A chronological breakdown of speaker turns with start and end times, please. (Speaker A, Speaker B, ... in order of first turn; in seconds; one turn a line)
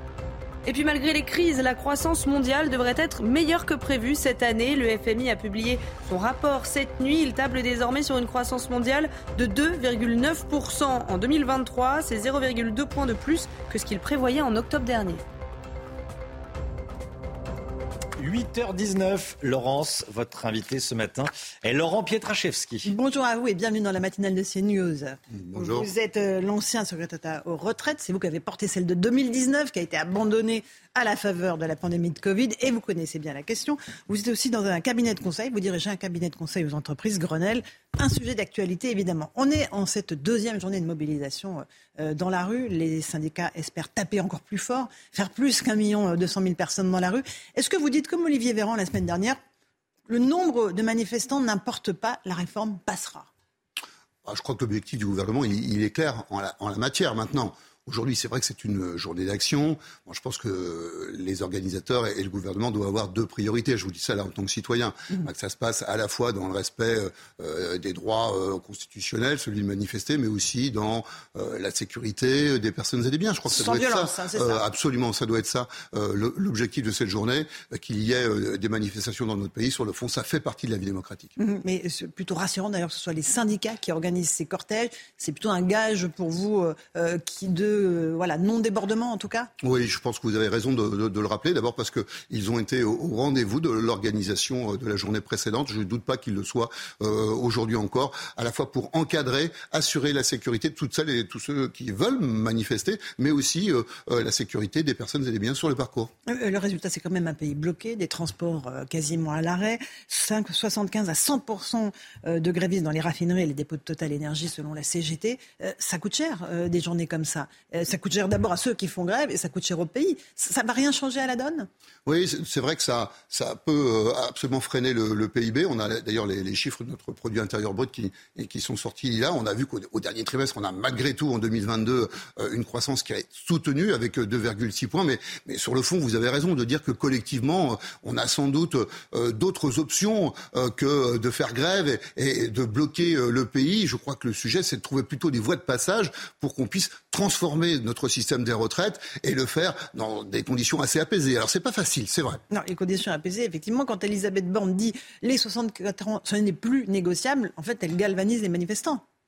Speaker A: 0.7-15.2
Speaker B: 18.2-22.9
Speaker C: 22.8-49.4
Speaker D: 25.4-25.9
Speaker C: 50.1-53.3
Speaker D: 54.2-81.3
Speaker C: 73.5-74.6
Speaker C: 81.4-89.5
Speaker D: 89.6-106.1
Speaker C: 106.3-121.7
Speaker D: 122.0-152.4
Speaker C: 152.5-159.0